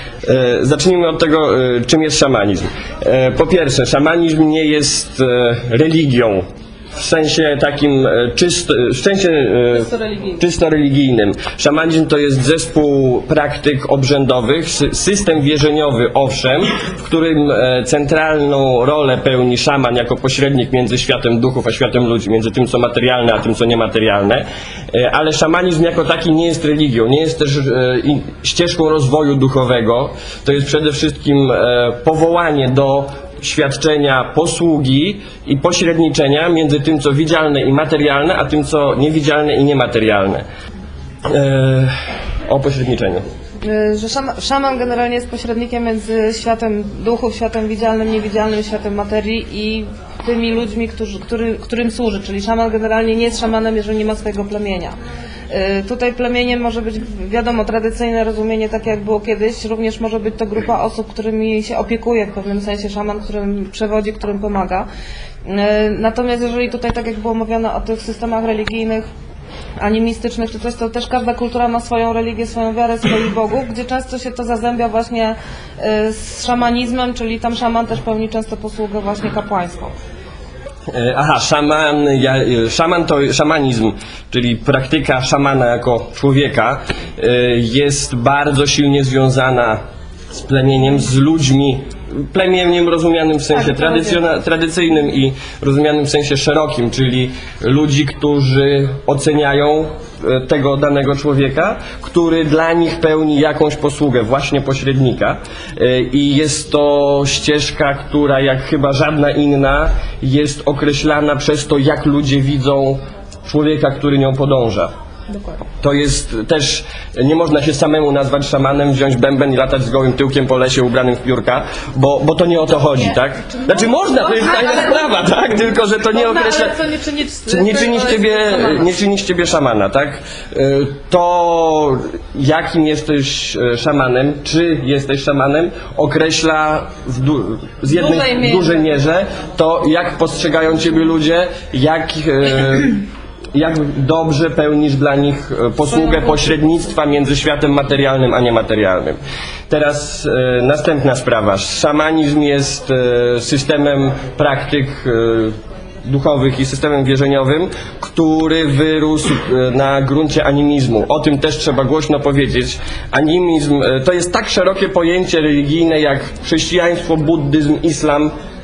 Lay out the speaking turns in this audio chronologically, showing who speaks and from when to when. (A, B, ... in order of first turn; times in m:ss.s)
0:00.2-0:40.4 A
0:09.7-0:10.4 B
0:41.3-0:41.9 A
0:42.5-0:43.2 A
0:43.6-0:55.0 B
0:55.5-1:04.9 B
1:05.4-1:09.1 B
1:09.8-1:19.9 B
1:20.9-1:54.9 A
1:33.5-1:34.2 B
1:55.3-1:55.6 B
1:55.8-2:06.8 A
2:03.6-2:05.2 B
2:06.1-2:08.9 B
2:07.5-2:23.0 A
2:17.9-2:18.8 B
2:23.5-2:29.2 A
2:25.9-2:26.4 B
2:29.7-2:48.3 A